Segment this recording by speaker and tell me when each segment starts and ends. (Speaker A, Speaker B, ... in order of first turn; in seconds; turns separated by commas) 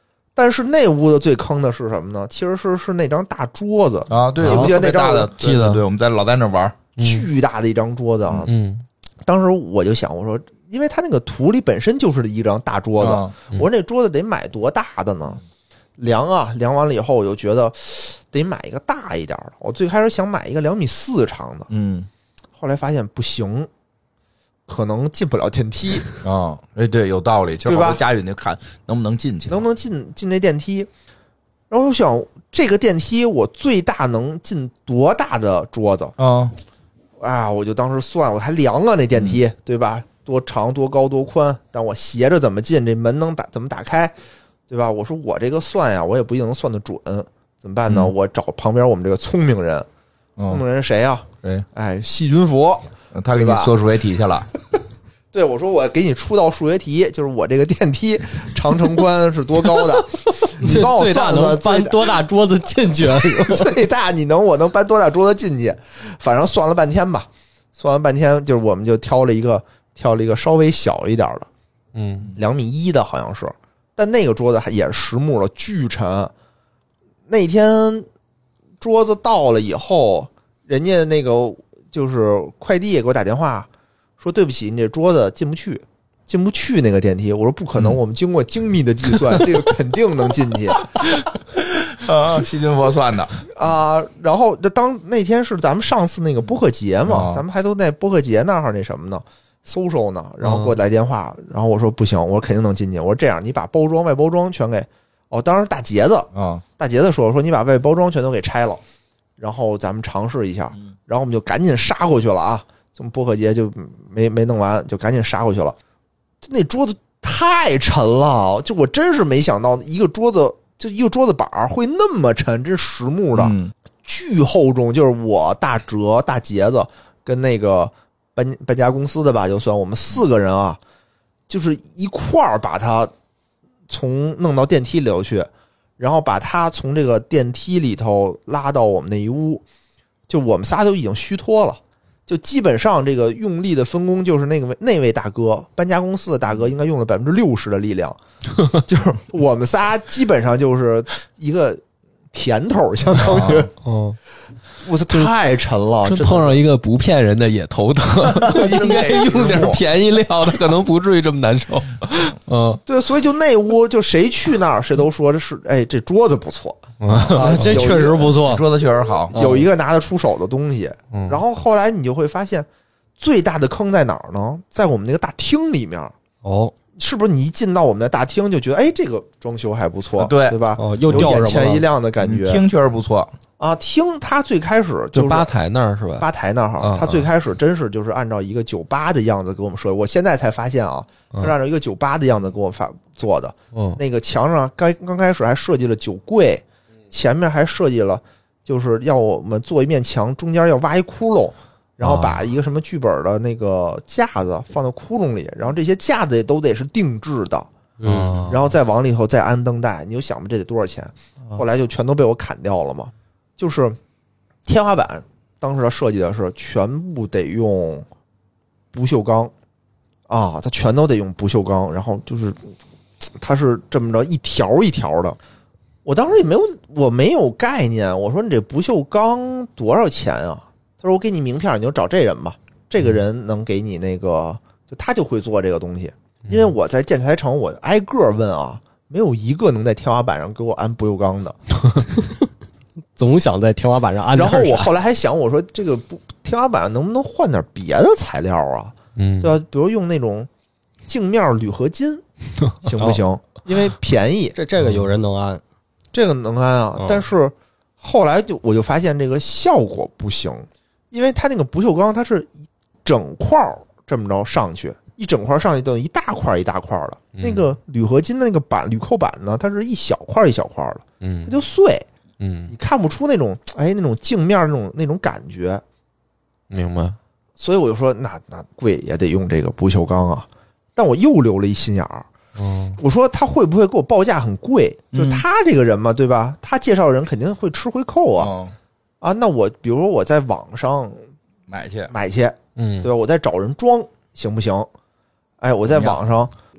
Speaker A: 0.4-5.3, Speaker B: 4.1-6.8, Speaker C: 4.4-4.7, Speaker C: 5.4-5.8, Speaker C: 7.0-7.3, Speaker A: 7.0-8.5, Speaker C: 8.5-8.8, Speaker A: 9.2-15.4, Speaker B: 13.0-13.3, Speaker A: 16.0-21.7, Speaker B: 21.7-22.1, Speaker A: 22.6-23.7, Speaker A: 24.7-26.2, Speaker B: 26.2-29.6, Speaker A: 27.7-28.0, Speaker A: 29.5-30.9, Speaker A: 31.7-36.2, Speaker B: 36.2-36.5, Speaker A: 37.2-44.1, Speaker B: 39.1-39.4, Speaker A: 44.7-49.9, Speaker B: 47.9-48.1, Speaker B: 50.4-50.6, Speaker A: 50.5-53.7, Speaker B: 53.1-54.5, Speaker A: 55.3-62.2, Speaker D: 60.4-63.8, Speaker A: 63.3-71.5, Speaker C: 72.0-72.3, Speaker A: 72.4-76.3, Speaker A: 77.3-78.1, Speaker A: 78.8-83.7, Speaker A: 84.2-91.0, Speaker B: 91.5-93.3, Speaker A: 93.5-108.8, Speaker B: 97.1-97.4, Speaker C: 100.4-100.8, Speaker B: 106.3-106.6, Speaker A: 109.4-115.8, Speaker A: 116.4-130.8, Speaker B: 123.3-123.7, Speaker A: 131.5-133.1, Speaker A: 133.9-139.6, Speaker A: 140.3-151.8, Speaker A: 152.3-153.7, Speaker B: 153.2-153.7, Speaker C: 153.8-154.2, Speaker A: 154.8-156.6, Speaker C: 156.0-162.8, Speaker B: 158.3-159.8, Speaker A: 162.9-168.4, Speaker C: 167.0-168.0, Speaker D: 167.4-168.6, Speaker B: 168.3-169.4, Speaker D: 169.3-169.7, Speaker A: 169.3-172.7, Speaker C: 171.1-171.4, Speaker A: 173.2-176.1, Speaker D: 176.4-176.7, Speaker A: 176.9-182.6, Speaker B: 180.2-180.6, Speaker D: 180.8-181.9, Speaker B: 182.2-183.3, Speaker A: 183.6-185.5, Speaker C: 185.1-186.3, Speaker A: 186.2-207.7, Speaker C: 186.8-187.2, Speaker C: 193.7-194.0, Speaker C: 202.0-202.4, Speaker D: 208.0-208.4, Speaker C: 208.0-208.7, Speaker A: 208.5-214.0, Speaker A: 214.7-218.1, Speaker A: 218.9-219.5, Speaker A: 220.3-222.7, Speaker A: 223.4-225.4, Speaker A: 226.1-241.6, Speaker D: 243.2-244.9, Speaker A: 244.3-250.5, Speaker C: 249.2-249.6, Speaker A: 251.1-252.2, Speaker A: 252.8-254.6, Speaker D: 254.6-255.6, Speaker C: 254.8-255.1, Speaker A: 256.1-262.5, Speaker D: 257.0-257.3, Speaker A: 263.1-272.1, Speaker C: 267.4-267.7, Speaker C: 271.2-271.6, Speaker C: 272.4-272.7, Speaker A: 272.7-275.8, Speaker C: 276.7-277.2, Speaker A: 277.6-282.3, Speaker C: 282.6-283.0, Speaker A: 283.0-288.5, Speaker B: 285.1-285.4, Speaker B: 288.4-288.7, Speaker A: 289.2-291.2, Speaker B: 291.7-292.1, Speaker A: 292.1-294.9, Speaker C: 292.8-293.1, Speaker A: 295.6-296.5, Speaker B: 295.9-296.2